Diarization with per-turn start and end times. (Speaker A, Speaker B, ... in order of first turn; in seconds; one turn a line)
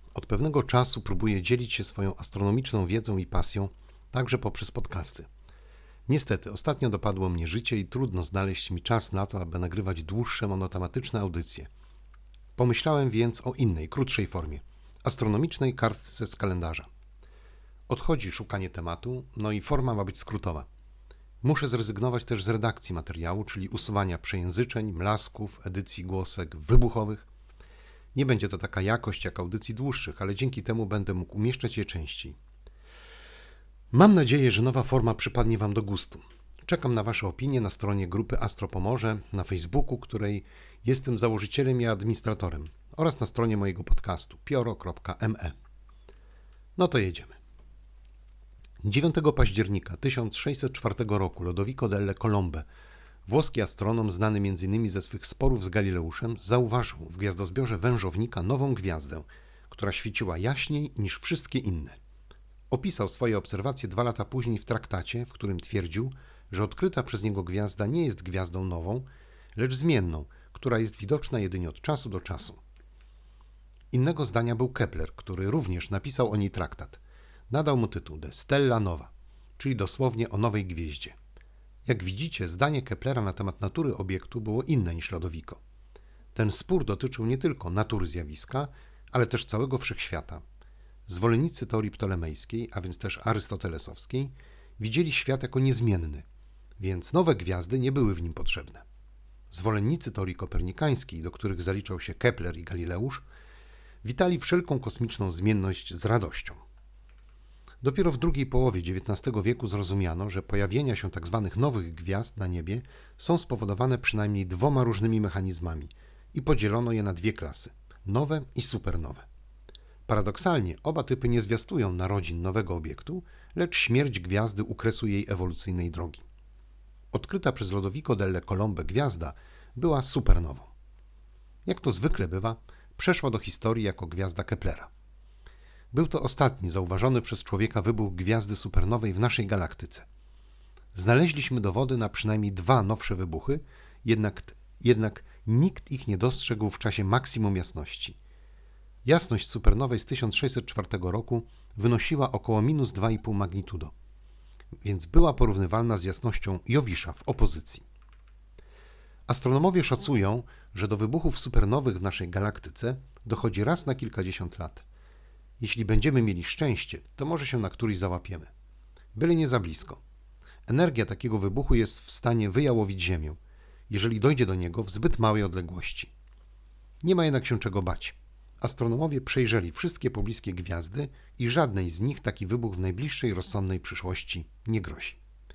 Speaker A: 0.1-5.3
Speaker A: 6.1-11.7
Speaker A: 12.6-16.9
Speaker A: 17.9-20.7
Speaker A: 21.4-27.3
Speaker A: 28.1-32.4
Speaker A: 33.9-45.5
Speaker A: 46.8-47.4
Speaker A: 48.8-52.6
Speaker A: 53.2-62.0
Speaker A: 62.7-72.6
Speaker A: 73.9-81.2
Speaker A: 81.8-85.6
Speaker A: 86.3-90.4
Speaker A: 91.1-96.2
Speaker A: 96.8-98.8
Speaker A: 99.5-103.2
Speaker A: 104.0-106.6
Speaker A: 107.8-119.2
Speaker A: 120.1-126.2
Speaker A: 127.1-130.7
Speaker A: 131.7-134.9
Speaker A: 135.9-140.1
Speaker A: 140.9-148.2
Speaker A: 149.0-153.9
Speaker A: 154.8-157.8
Speaker A: 159.3-164.8
Speaker A: 165.6-168.5
Speaker A: 169.1-170.0
Speaker A: 170.7-173.4
Speaker A: 173.9-176.1
Speaker A: 177.0-185.2